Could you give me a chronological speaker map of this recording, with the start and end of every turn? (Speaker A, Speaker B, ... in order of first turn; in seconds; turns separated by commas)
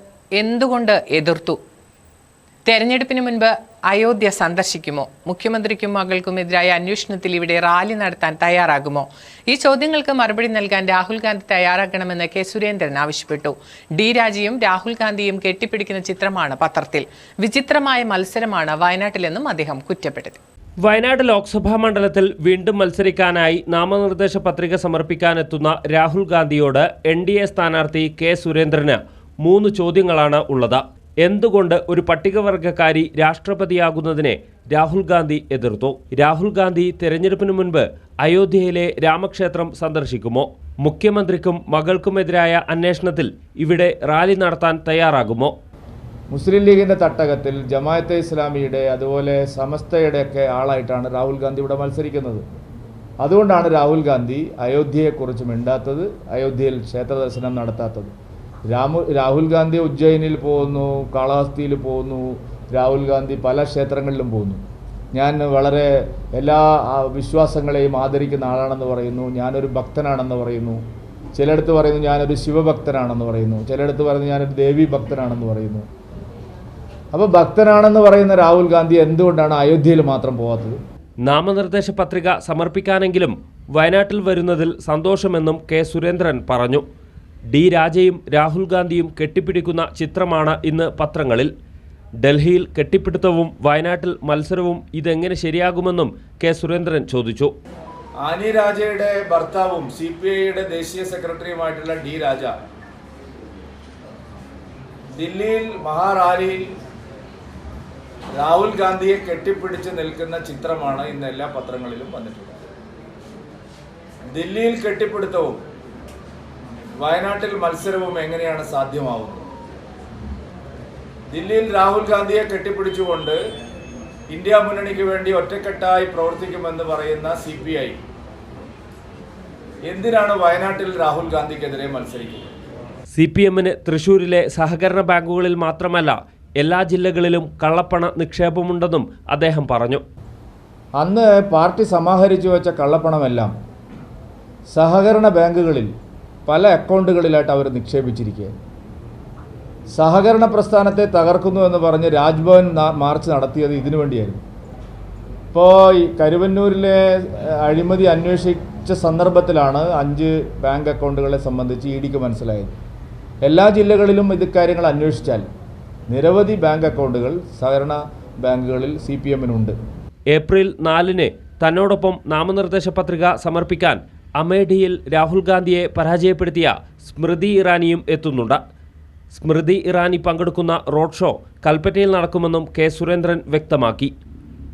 Speaker A: 0.4-1.6, Speaker A: 2.7-20.4, Speaker B: 20.8-45.5, Speaker C: 46.3-52.4, Speaker C: 53.2-58.1, Speaker C: 58.7-64.6, Speaker C: 65.1-70.8, Speaker C: 71.3-75.8, Speaker C: 77.1-80.8, Speaker B: 81.2-86.8, Speaker B: 87.5-91.5, Speaker B: 92.2-97.5, Speaker C: 98.2-102.5, Speaker C: 105.1-106.7, Speaker C: 108.4-112.6, Speaker C: 114.3-115.6, Speaker C: 117.0-119.4, Speaker C: 121.3-123.4, Speaker C: 124.3-128.0, Speaker C: 129.8-132.5, Speaker B: 133.1-140.0, Speaker C: 141.0-143.5, Speaker C: 144.7-145.9, Speaker C: 146.5-148.5, Speaker C: 149.9-154.4, Speaker C: 155.5-162.7, Speaker C: 163.4-165.5, Speaker C: 166.1-169.7, Speaker B: 170.3-178.6, Speaker B: 179.3-184.1